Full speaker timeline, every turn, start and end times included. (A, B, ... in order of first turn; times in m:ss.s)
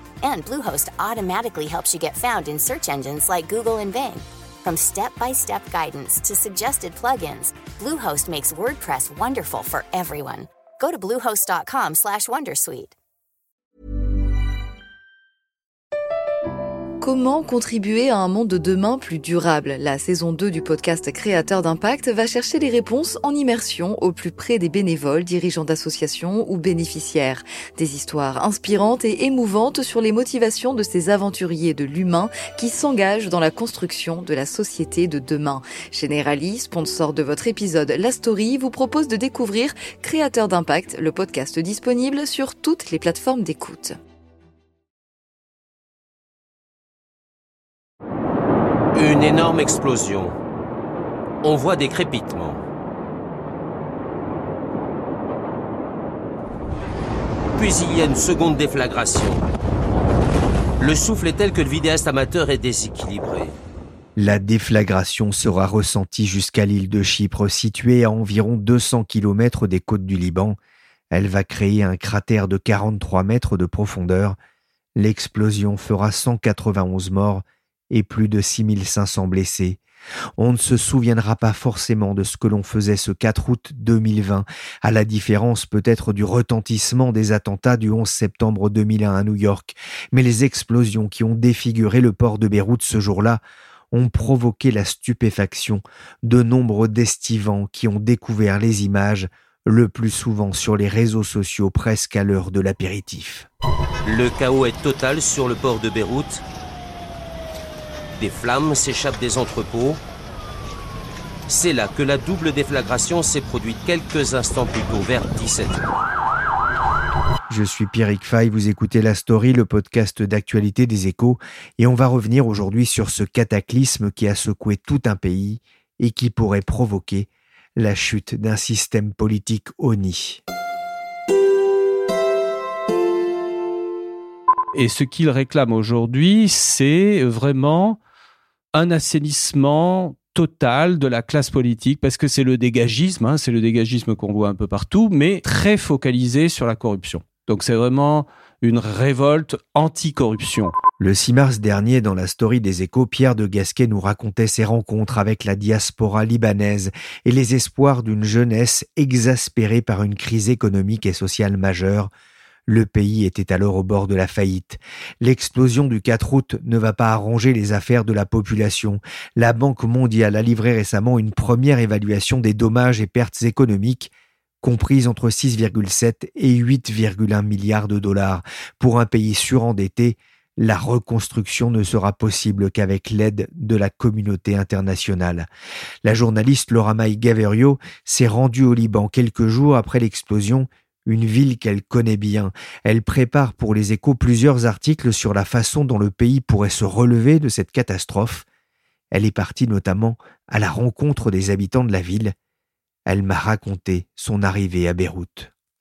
0:00.2-0:12.9 A
0:17.0-0:44.0 B
0:48.9-0:50.3 C
0:51.4-0:52.6 C
0:57.5-0:59.4 C
1:00.8-1:03.5 C
1:04.2-1:10.6 D
1:11.1-1:14.4 D
1:15.0-1:19.8 D
1:20.4-1:33.4 D
1:33.9-1:43.5 D
1:44.0-1:46.4 C
1:48.1-1:50.0 C
1:51.5-1:55.8 C
1:57.5-2:10.4 D
2:14.7-2:18.0 E
2:18.7-2:30.7 E
2:31.0-2:42.1 D
2:42.7-2:54.1 D
2:54.6-3:05.5 D
3:06.0-3:18.4 D
3:19.1-3:22.3 D
3:23.0-3:25.5 D